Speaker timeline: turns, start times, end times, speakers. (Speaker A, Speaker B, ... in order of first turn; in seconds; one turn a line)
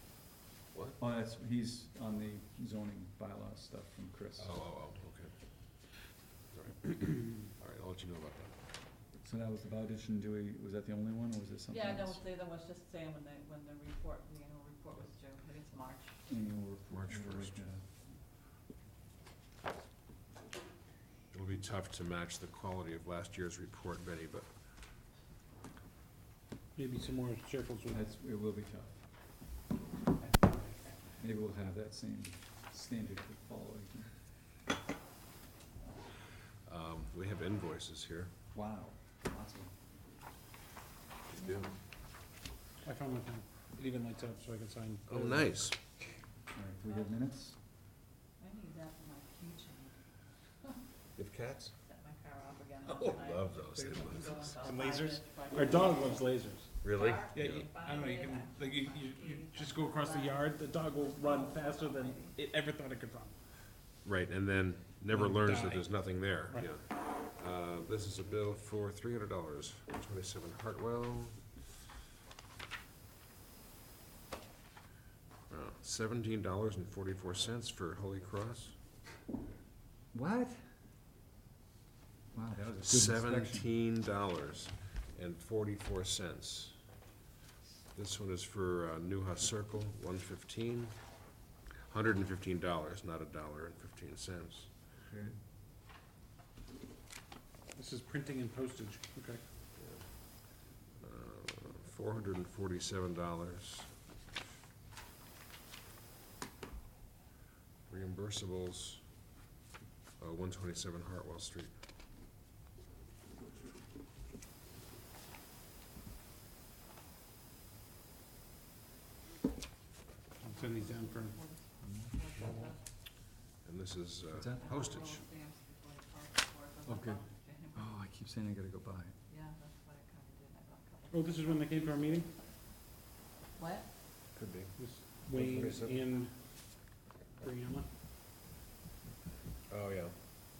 Speaker A: 1.0-4.6
Speaker B: 4.4-5.3
Speaker B: 6.5-8.5
Speaker A: 9.2-12.2
Speaker C: 11.7-16.1
Speaker A: 16.3-17.8
Speaker B: 16.9-17.6
Speaker B: 21.3-24.4
Speaker D: 26.8-28.0
Speaker A: 27.9-28.9
Speaker A: 31.2-34.1
Speaker B: 36.7-38.3
Speaker A: 38.5-39.7
Speaker B: 41.3-41.7
Speaker D: 42.8-45.5
Speaker B: 45.1-45.7
Speaker A: 46.5-47.6
Speaker C: 48.4-50.0
Speaker B: 51.2-51.7
Speaker C: 51.9-56.2
Speaker B: 52.9-54.6
Speaker D: 54.6-56.7
Speaker B: 56.8-57.7
Speaker C: 56.9-62.3
Speaker D: 57.3-63.3
Speaker B: 64.0-71.4
Speaker D: 65.1-65.9
Speaker B: 75.5-78.7
Speaker A: 80.1-80.6
Speaker A: 82.3-83.7
Speaker B: 82.8-86.8
Speaker B: 87.9-90.9
Speaker B: 91.9-94.7
Speaker A: 95.1-95.3
Speaker D: 97.7-99.4
Speaker B: 99.8-100.4
Speaker B: 101.0-103.9
Speaker B: 107.9-109.0
Speaker B: 110.2-111.7
Speaker D: 120.4-121.3
Speaker C: 120.5-122.8
Speaker A: 121.8-122.1
Speaker B: 123.6-125.2
Speaker A: 124.3-124.7
Speaker C: 124.5-127.9
Speaker A: 126.8-127.2
Speaker A: 127.7-129.2
Speaker C: 129.3-132.4
Speaker D: 131.1-132.3
Speaker C: 133.6-133.9
Speaker B: 134.3-134.8
Speaker D: 134.8-136.3
Speaker B: 135.3-136.0
Speaker D: 137.4-137.9
Speaker B: 139.7-140.1